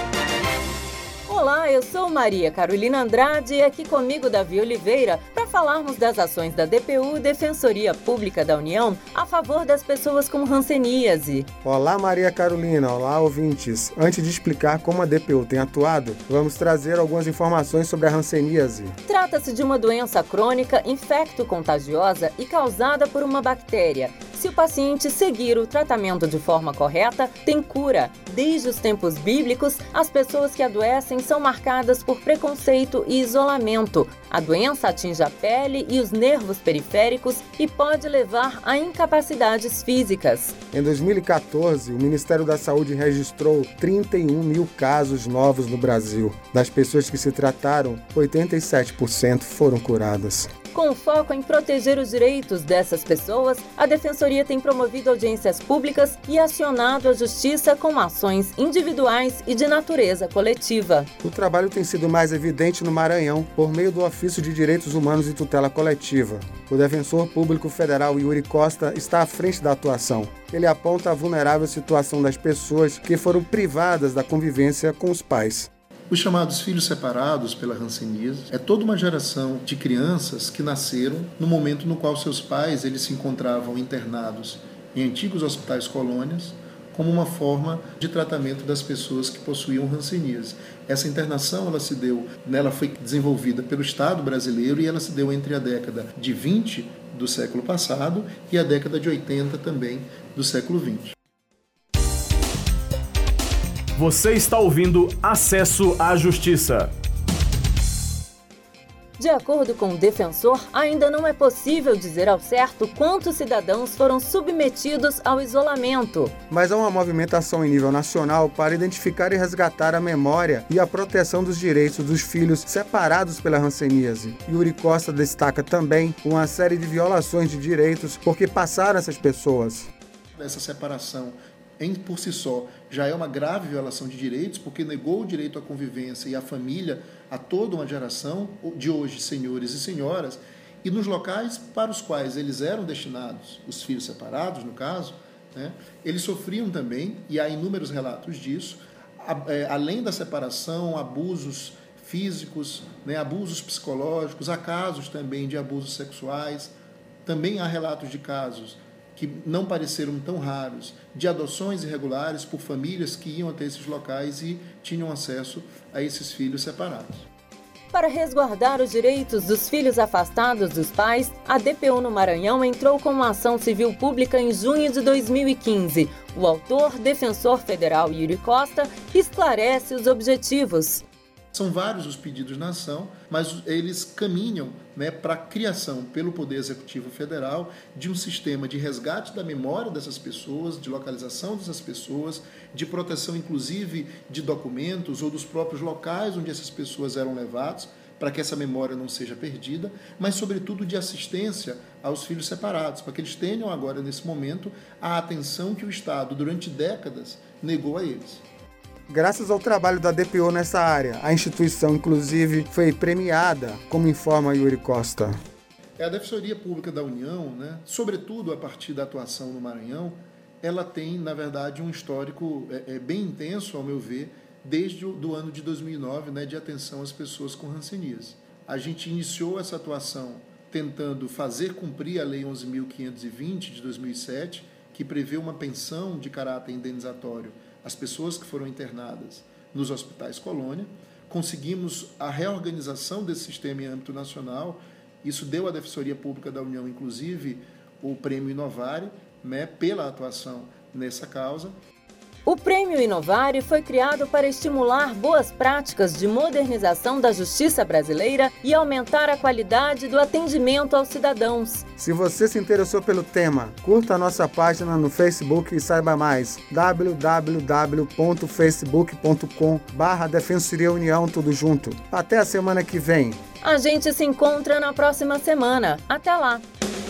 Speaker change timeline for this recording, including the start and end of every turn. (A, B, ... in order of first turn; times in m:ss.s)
0:01.3-0:11.5 A
0:11.6-0:19.0 B
0:19.1-0:40.6 A
0:40.7-0:50.5 B
0:50.7-1:01.1 A
1:01.2-1:15.7 B
1:16.1-1:41.2 C
1:44.0-1:46.9 D
1:49.2-1:56.4 A
1:56.5-2:09.9 B
2:10.4-2:36.7 C
2:37.2-2:47.3 C
2:47.9-3:01.0 A
3:01.5-3:28.4 C
3:29.1-3:35.4 B
3:36.0-4:11.7 C
4:12.5-4:21.8 A
4:22.0-4:33.4 B
4:33.6-4:36.6 A